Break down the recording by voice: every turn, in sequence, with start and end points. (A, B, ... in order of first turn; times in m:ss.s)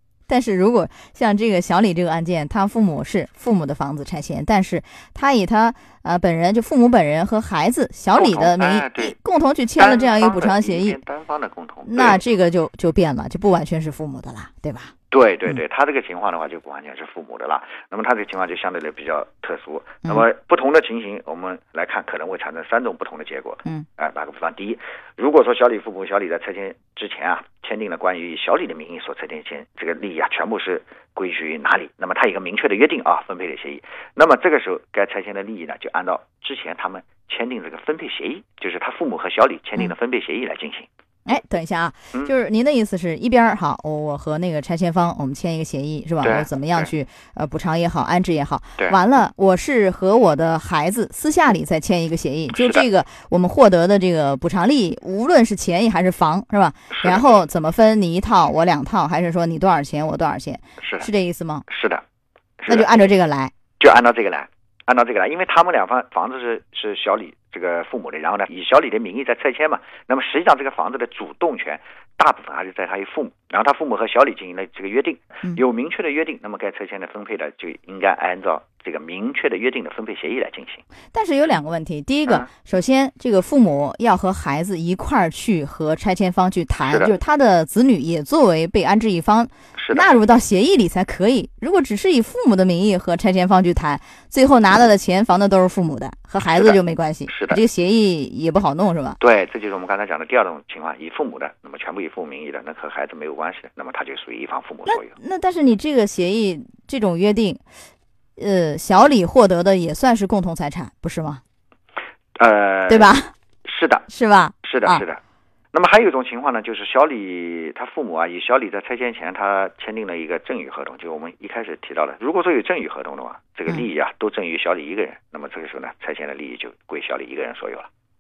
0:00.3-0:11.0 A
0:08.1-0:09.1 B
0:09.8-0:12.2 B
0:11.8-0:14.9 A
0:15.1-0:40.8 B
0:41.2-1:01.6 A
0:46.2-0:46.9 B
0:52.5-0:52.8 B
0:57.0-0:57.3 B
1:00.8-1:01.1 B
1:01.7-1:02.0 B
1:02.6-1:02.9 B
1:02.7-1:03.5 A
1:03.8-1:20.8 B
1:21.1-1:39.2 A
1:26.8-1:27.1 B
1:29.8-1:30.2 B
1:36.5-1:37.6 B
1:39.2-1:45.1 B
1:44.8-1:47.6 A
1:48.4-1:51.4 A
1:52.4-1:53.1 B
1:52.9-1:53.3 A
1:53.6-1:54.1 B
1:54.1-1:55.0 A
1:54.6-1:55.2 B
1:55.7-2:07.9 B